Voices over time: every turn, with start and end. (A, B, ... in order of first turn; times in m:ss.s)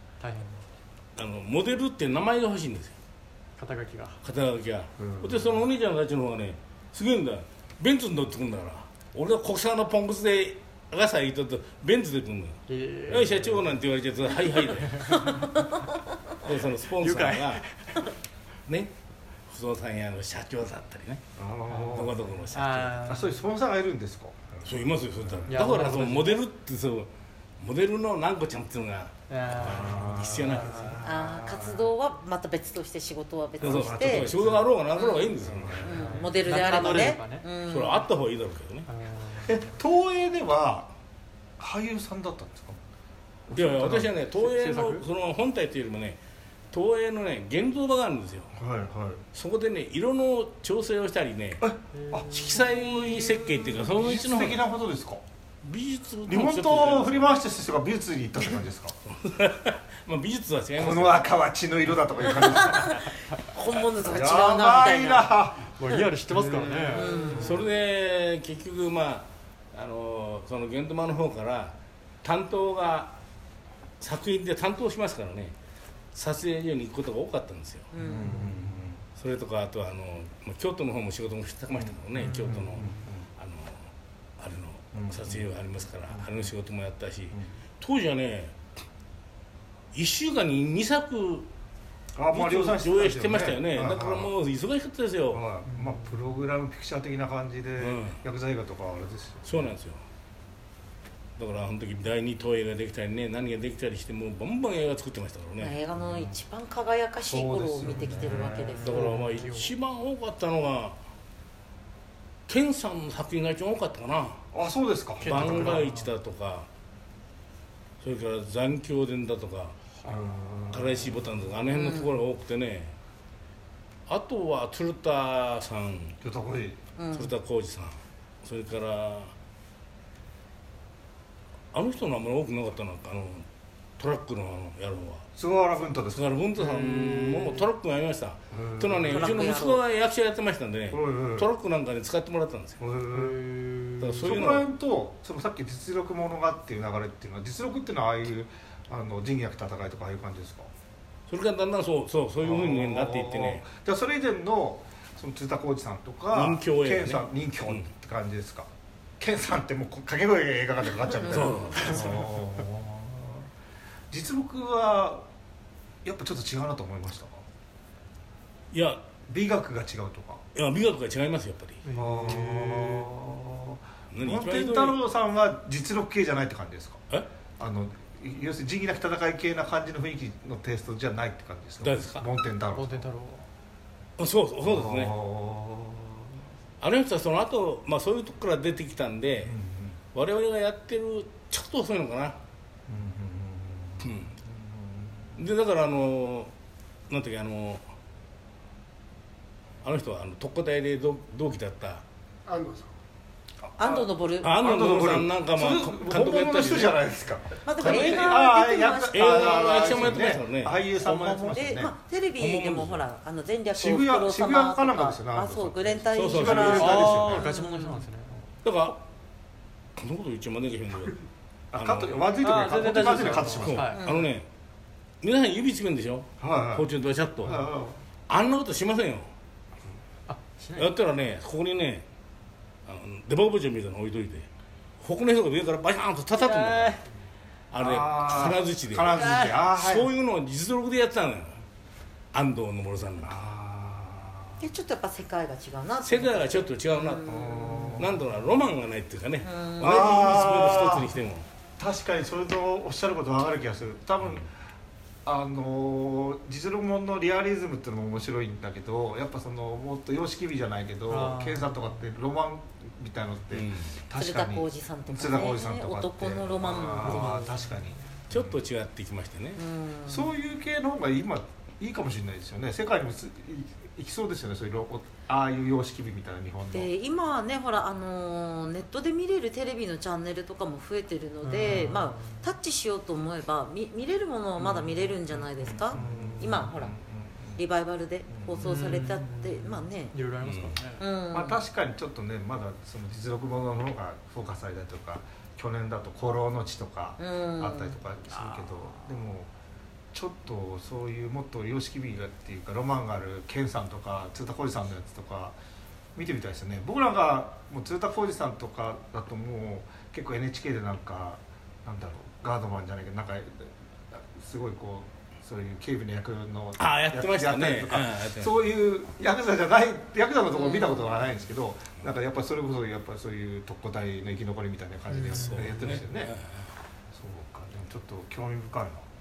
0:00.2-0:00.6 A
0:01.2-0:03.0 B
0:03.6-0:04.2 A
0:04.2-0:15.4 B
0:05.0-0:05.6 C
0:12.7-0:13.7 A
0:14.8-0:15.4 A
0:16.4-0:17.6 B
0:17.0-0:18.1 A
0:18.7-0:18.9 B
0:19.5-0:21.2 B
0:21.4-0:22.2 C
0:21.7-0:22.0 A
0:21.9-0:23.0 B
0:22.5-0:23.4 A
0:23.1-0:24.7 C
0:24.6-0:30.9 B
0:25.5-0:26.4 A
0:29.3-0:31.0 A
0:29.6-0:31.9 C
0:31.0-0:34.3 D
0:33.6-0:37.1 B
0:33.6-0:34.7 C
0:34.9-0:38.1 D
0:35.4-0:36.3 C
0:36.0-0:37.5 A
0:37.6-0:38.9 B
0:38.9-0:39.7 A
0:39.4-0:40.9 C
0:41.6-0:42.8 C
0:43.5-0:44.1 C
0:43.5-0:46.2 B
0:44.3-0:45.0 A
0:46.7-0:48.5 B
0:48.5-0:49.2 C
0:49.3-0:51.7 B
0:51.6-0:55.2 C
0:51.9-0:52.9 A
0:52.3-0:54.6 B
0:55.6-0:57.4 B
0:56.3-0:59.0 C
0:59.1-1:01.3 B
1:00.8-1:03.0 C
1:02.4-1:05.3 D
1:04.0-1:05.7 C
1:05.8-1:07.4 A
1:06.3-1:07.6 C
1:06.9-1:07.6 D
1:07.4-1:13.2 B
1:14.0-1:15.5 B
1:16.1-1:17.9 B
1:17.9-1:18.4 D
1:18.0-1:19.0 C
1:19.2-1:23.8 B
1:21.7-1:23.2 C
1:22.2-1:23.0 A
1:24.4-1:28.6 B
1:24.9-1:25.5 C
1:26.1-1:26.5 C
1:29.9-1:31.5 B
1:32.2-1:34.3 C
1:32.3-1:35.4 B
1:35.3-1:39.7 C
1:35.7-1:36.3 A
1:37.8-1:38.2 B
1:39.4-1:40.0 B
1:41.4-1:45.8 B
1:45.6-1:49.1 D
1:46.0-1:46.4 C
1:47.3-1:49.1 C
1:48.8-1:49.7 A
1:48.8-1:51.0 B
1:52.5-1:54.4 B
1:54.5-1:55.8 C
1:55.2-1:56.1 A
1:55.2-1:56.7 B
1:58.0-1:59.8 B
2:00.0-2:01.3 C
2:00.7-2:03.0 B
2:01.7-2:02.2 D
2:04.1-2:06.2 B
2:06.2-2:06.8 C
2:07.0-2:07.3 D
2:07.1-2:09.3 B
2:11.7-2:13.5 B
2:14.0-2:15.3 B
2:15.4-2:16.3 C
2:16.1-2:22.8 B
2:16.8-2:17.4 A
2:18.5-2:19.4 C
2:19.1-2:19.8 D
2:20.9-2:21.5 C
2:22.8-2:30.7 C
2:23.1-2:24.0 A
2:24.0-2:24.7 B
2:31.3-2:33.6 B
2:32.4-2:43.5 C
2:36.3-2:37.9 B
2:41.3-2:42.2 B
2:44.1-2:45.3 C
2:46.0-2:47.4 C
2:48.7-2:49.0 B
2:49.3-2:50.4 C
2:50.6-2:51.8 B
2:51.8-2:53.1 A
2:52.0-2:57.0 C
2:54.1-2:55.0 B
2:57.6-3:03.1 C
3:01.8-3:02.2 B
3:02.7-3:03.5 A
3:04.2-3:05.2 B
3:04.6-3:06.3 C
3:06.8-3:09.6 B
3:09.4-3:10.0 C
3:10.1-3:12.4 B
3:12.9-3:15.4 C
3:14.0-3:14.3 B
3:15.4-3:16.5 B
3:17.1-3:17.8 B
3:19.8-3:22.0 B
3:22.5-3:22.8 C
3:23.6-3:31.9 C
3:23.8-3:24.5 D
3:24.4-3:27.0 B
3:27.7-3:30.2 D
3:27.8-3:28.4 B
3:29.1-3:30.8 B
3:31.1-3:38.0 D
3:31.1-3:31.5 A
3:32.4-3:33.0 B
3:33.7-3:37.5 C
3:36.1-3:37.3 B
3:36.7-3:38.5 A
3:38.6-3:39.0 B
3:40.0-3:41.2 B
3:41.7-3:43.9 C
3:41.7-3:42.3 B
3:42.4-3:44.1 A
3:43.6-3:44.5 B
3:44.0-3:44.3 D
3:45.2-3:47.6 B
3:46.4-3:46.9 C
3:47.4-3:48.0 C
3:48.3-3:49.3 B
3:50.3-3:50.9 A
3:50.8-3:52.0 B
3:52.9-3:54.5 B
3:55.0-3:57.0 B
3:56.4-3:57.0 A
3:57.7-4:01.6 B
3:57.8-4:00.1 C
3:59.1-3:59.6 A
4:02.3-4:03.4 B
4:03.2-4:04.6 C
4:04.6-4:08.1 D
4:06.0-4:07.3 B
4:07.3-4:08.3 C
4:08.0-4:11.5 B
4:09.4-4:10.0 D
4:09.8-4:11.2 C
4:11.8-4:14.5 C
4:15.2-4:28.6 C
4:21.1-4:22.0 A
4:23.5-4:24.0 B
4:24.1-4:27.3 D
4:27.0-4:28.0 A
4:28.3-4:29.6 B
4:29.6-4:30.3 D
4:30.1-4:36.9 C
4:36.7-4:46.9 D
4:41.4-4:42.5 A
4:44.6-4:45.1 C
4:45.6-4:47.6 C
4:46.0-4:46.3 A
4:47.6-4:50.2 D
4:48.3-4:48.8 C
4:48.6-4:51.0 A
4:50.4-4:50.8 B
4:51.0-4:51.6 D
4:51.3-4:59.5 C
4:57.2-4:58.0 D
4:58.3-4:58.8 A
5:00.1-5:05.6 C
5:06.2-5:26.3 C
5:16.8-5:18.6 B
5:20.5-5:21.1 D
5:25.1-5:26.0 A
5:25.3-5:26.5 B
5:27.1-5:29.1 C